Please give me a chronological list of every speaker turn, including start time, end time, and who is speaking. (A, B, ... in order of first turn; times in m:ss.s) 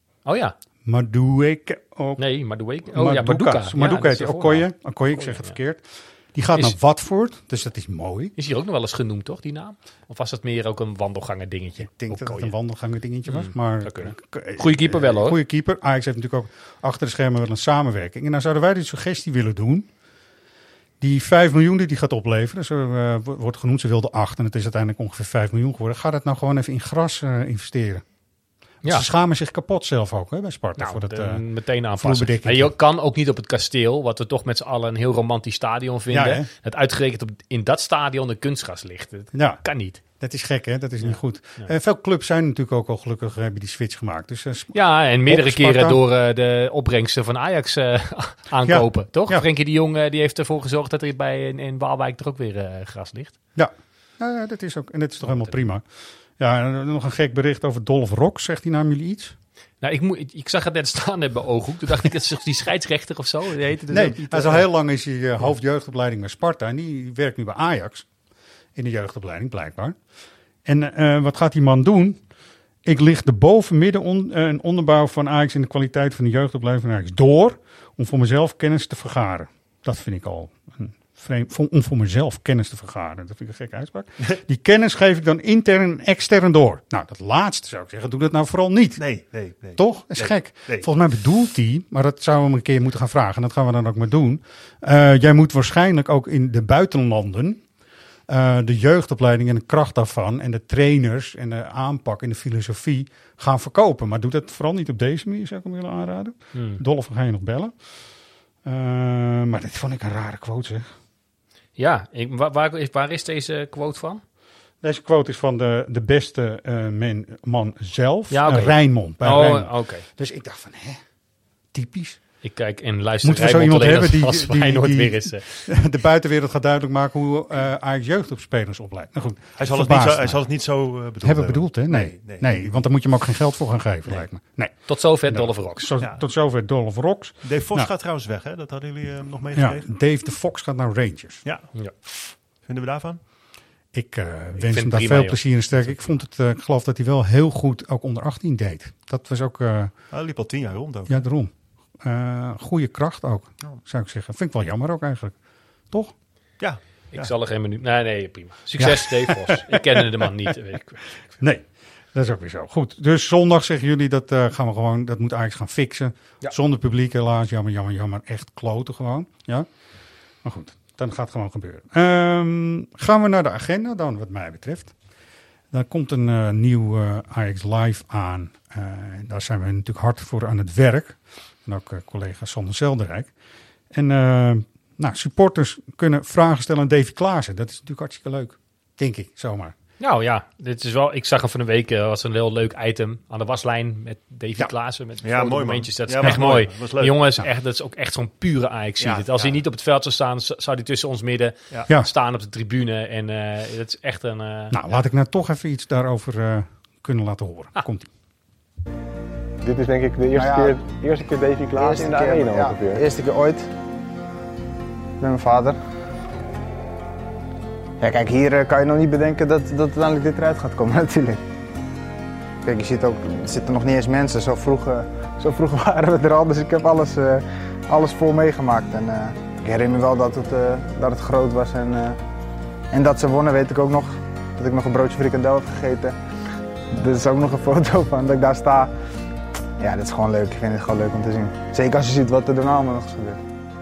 0:00.2-0:00.5 A
0:00.8-0:02.2 B
0:02.2-0:05.6 A
0:02.9-0:08.3 B
0:08.4-0:12.5 A
0:11.8-0:19.9 B
0:13.2-0:15.4 A
0:21.0-0:28.0 B
0:28.8-0:31.4 B
0:30.8-0:40.0 A
0:32.0-0:32.7 B
0:36.1-0:36.5 B
0:39.3-0:46.0 B
0:41.0-0:41.7 A
0:44.7-0:53.3 A
0:48.6-0:49.4 B
0:53.6-0:55.8 B
0:55.2-0:55.6 A
0:56.4-0:59.4 B
0:59.8-1:04.7 A
1:03.9-1:08.1 B
1:08.7-1:10.0 B
1:10.6-1:12.2 B
1:12.8-1:37.6 B
1:29.0-1:30.9 C
1:38.3-1:47.8 B
1:46.5-1:46.8 A
1:48.6-1:50.9 B
1:51.8-1:54.2 A
1:54.8-2:01.0 B
1:58.3-2:00.0 A
2:01.7-2:02.2 B
2:02.4-2:05.7 A
2:03.2-2:10.5 B
2:09.6-2:12.8 C
2:11.2-2:17.9 B
2:14.9-2:15.9 A
2:17.4-2:19.8 C
2:19.5-2:21.4 B
2:21.4-2:21.7 C
2:22.6-2:23.2 C
2:23.9-2:29.9 B
2:24.6-2:26.2 A
2:30.1-2:31.2 C
2:31.1-2:35.4 B
2:36.6-2:37.3 C
2:37.1-2:41.4 A
2:38.8-2:40.2 B
2:41.4-2:49.7 B
2:50.4-2:54.9 B
2:55.7-3:03.3 B
3:03.9-3:09.7 B
3:10.0-3:24.8 A
3:15.2-3:17.2 C
3:19.0-3:19.6 C
3:24.7-3:28.1 B
3:29.6-3:33.0 D
3:30.3-3:33.7 E
3:35.2-3:35.8 E
3:38.0-3:41.4 E
3:42.6-3:52.2 E
3:52.9-3:56.1 E
3:57.0-3:58.9 E
3:59.8-4:03.4 E